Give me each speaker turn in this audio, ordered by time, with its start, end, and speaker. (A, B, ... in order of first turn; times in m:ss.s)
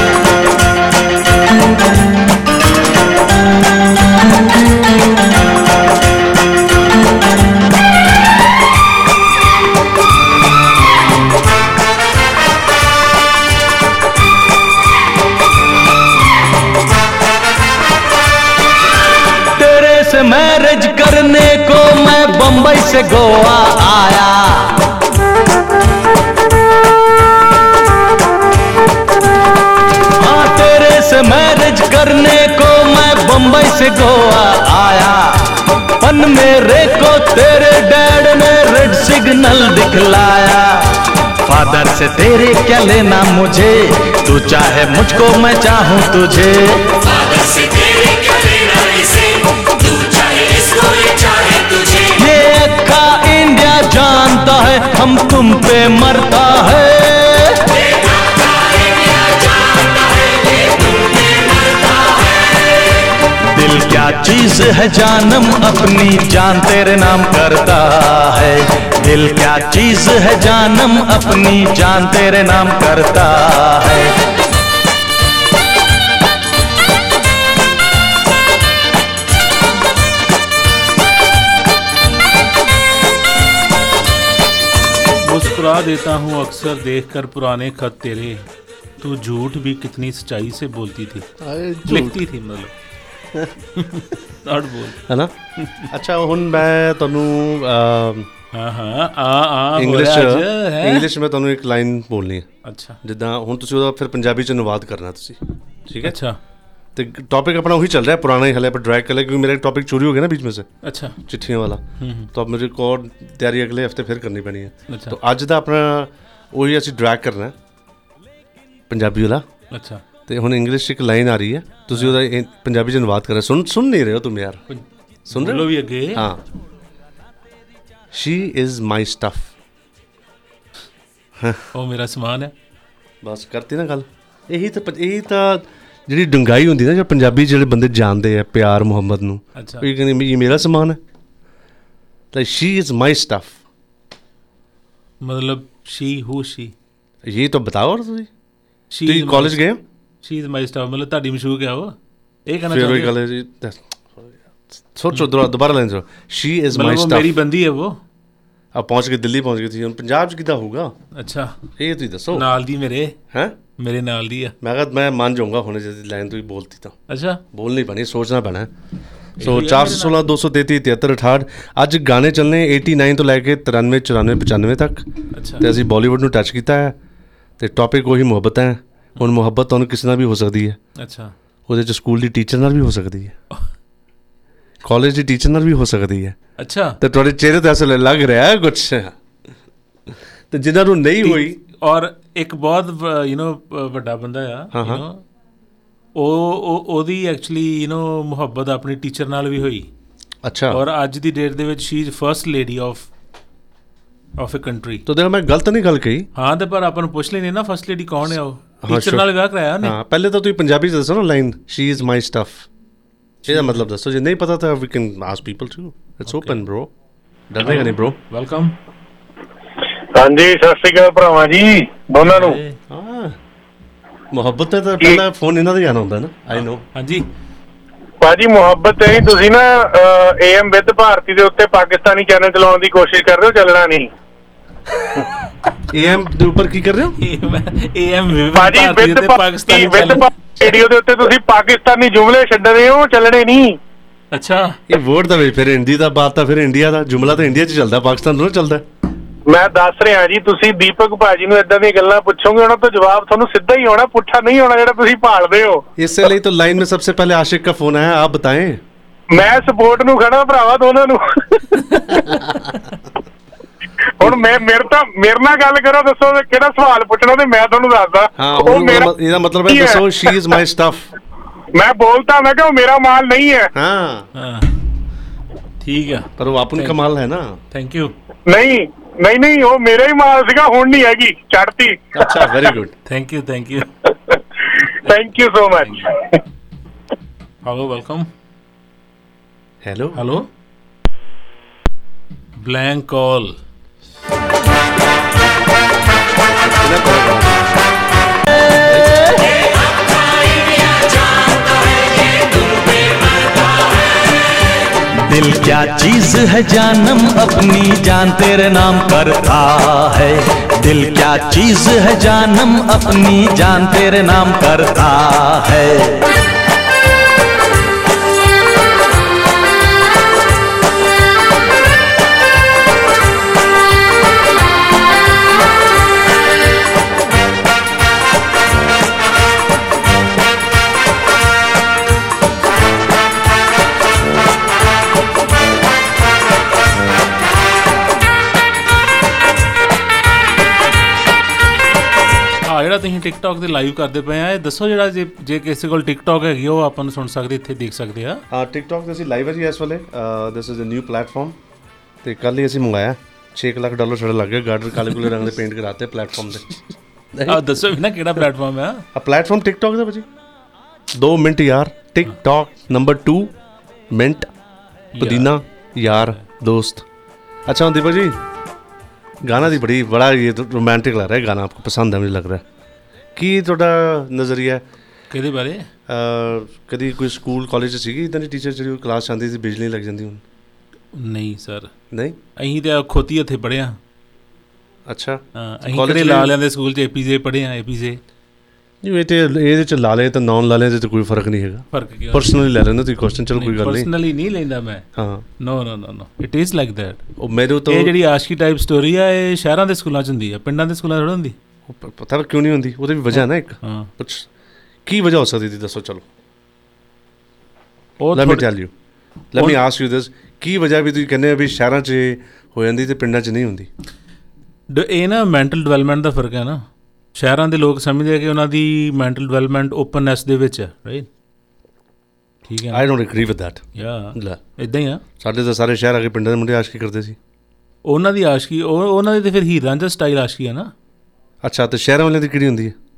0:19.6-0:24.8 A
0:30.2-0:35.5 A
0:36.0-0:40.8 A
0:41.5-0:47.0 A
0:52.1-0:57.6 A
1:03.6-1:14.1 A
1:25.2-1:28.5 B
1:29.0-1:31.3 B
1:31.4-1:32.2 C
1:31.9-1:32.7 B
1:33.8-1:35.0 B
1:35.1-1:35.3 C
1:35.6-1:35.9 B
1:35.9-1:38.3 C
1:38.5-1:41.1 B
1:39.8-1:42.5 C
1:42.6-1:43.0 B
1:43.0-1:46.2 C
1:46.0-1:46.4 B
1:47.0-1:50.7 C
1:50.8-1:51.2 B
1:51.2-1:57.6 C
1:52.0-1:52.3 B
1:54.9-1:55.2 B
1:58.9-1:59.4 C
1:59.7-2:00.0 B
2:00.3-2:04.6 C
2:04.7-2:06.2 B
2:05.3-2:06.4 C
2:08.1-2:09.5 C
2:11.8-2:12.5 B
2:13.2-2:21.0 C
2:19.6-2:19.9 B
2:22.3-2:23.6 C
2:25.2-2:26.7 B
2:27.2-2:28.3 C
2:28.9-2:29.6 B
2:29.0-2:29.8 C
2:30.2-2:31.9 B
2:32.5-2:33.1 B
2:32.7-2:37.3 C
2:36.7-2:38.0 B
2:38.7-2:40.9 C
2:41.2-2:41.5 B
2:41.8-2:42.5 C
2:42.3-2:43.2 B
2:43.8-2:44.5 B
2:44.6-2:47.0 C
2:47.1-2:47.4 B
2:47.5-2:48.7 C
2:49.4-2:50.2 B
2:49.4-2:55.1 C
2:55.4-2:55.7 B
2:55.6-2:57.0 C
2:57.6-3:00.8 C
3:01.0-3:01.3 B
3:01.7-3:03.4 C
3:04.8-3:06.4 C
3:06.6-3:07.0 B
3:07.0-3:09.1 C
3:10.5-3:11.6 C
3:11.2-3:15.2 B
3:14.7-3:15.0 C
3:16.2-3:19.9 B
3:20.4-3:20.8 C
3:20.7-3:23.1 B
3:24.4-3:25.0 B
3:25.1-3:26.3 C
3:26.4-3:30.0 B
3:28.8-3:29.3 C
3:29.8-3:32.7 C
3:33.4-3:36.9 C
3:33.5-3:33.8 B
3:36.3-3:36.6 B
3:37.5-3:38.2 C
3:37.6-3:38.8 B
3:40.1-3:42.6 D
3:42.3-3:42.8 B
3:42.9-3:43.4 C
3:44.3-3:46.8 C
3:46.5-3:47.2 B
3:48.2-3:54.1 D
3:55.9-3:57.2 C
3:57.2-4:00.3 B
3:58.5-4:03.7 D
4:04.3-4:04.8 B
4:04.9-4:08.8 C
4:09.5-4:15.8 D
4:16.0-4:18.8 C
4:19.3-4:22.2 D
4:21.9-4:22.2 B
4:24.2-4:29.1 D
4:28.4-4:31.1 C
4:29.7-4:30.4 D
4:31.8-4:33.7 D
4:33.8-4:34.2 C
4:34.4-4:34.7 B
4:35.8-4:37.0 B
4:36.4-4:37.6 C
4:37.7-4:38.1 B
4:38.5-4:42.7 D
4:42.1-4:42.9 C
4:43.1-4:43.9 B
4:45.0-4:46.2 D
4:47.6-4:48.3 B
4:49.8-4:50.2 C
4:50.2-4:50.4 B
4:52.6-4:53.6 B
4:56.7-4:57.8 C
4:58.8-4:59.2 C
5:05.3-5:16.2 A
5:42.7-5:48.4 B
5:48.5-5:51.6 C
5:52.2-5:56.6 C
5:57.3-5:57.6 C
5:57.5-5:59.0 B
5:59.1-6:00.3 C
6:01.1-6:03.5 C
6:04.1-6:04.5 C
6:05.2-6:05.5 B
6:05.2-6:07.0 C
6:07.7-6:08.4 C
6:09.4-6:12.6 C
6:13.4-6:14.8 C
6:15.3-6:15.9 B
6:16.1-6:20.4 C
6:21.1-6:21.9 B
6:22.1-6:22.4 C
6:22.6-6:24.0 B
6:25.1-6:26.5 C
6:25.6-6:28.2 B
6:29.0-6:34.1 C
6:31.9-6:32.6 B
6:33.6-6:35.0 B
6:35.2-6:35.4 C
6:35.6-6:37.2 B
6:37.4-6:38.1 C
6:37.9-6:41.6 B
6:41.9-6:44.5 C
6:43.3-6:44.1 B
6:45.1-6:46.2 C
6:48.2-6:48.7 B
6:48.3-6:48.9 C
6:49.5-6:53.9 C
6:54.9-6:56.8 B
6:57.4-7:01.3 B
7:02.7-7:03.0 B
7:02.9-7:04.6 C
7:04.0-7:05.2 B
7:05.4-7:07.4 C
7:08.1-7:10.9 B
7:11.6-7:13.0 C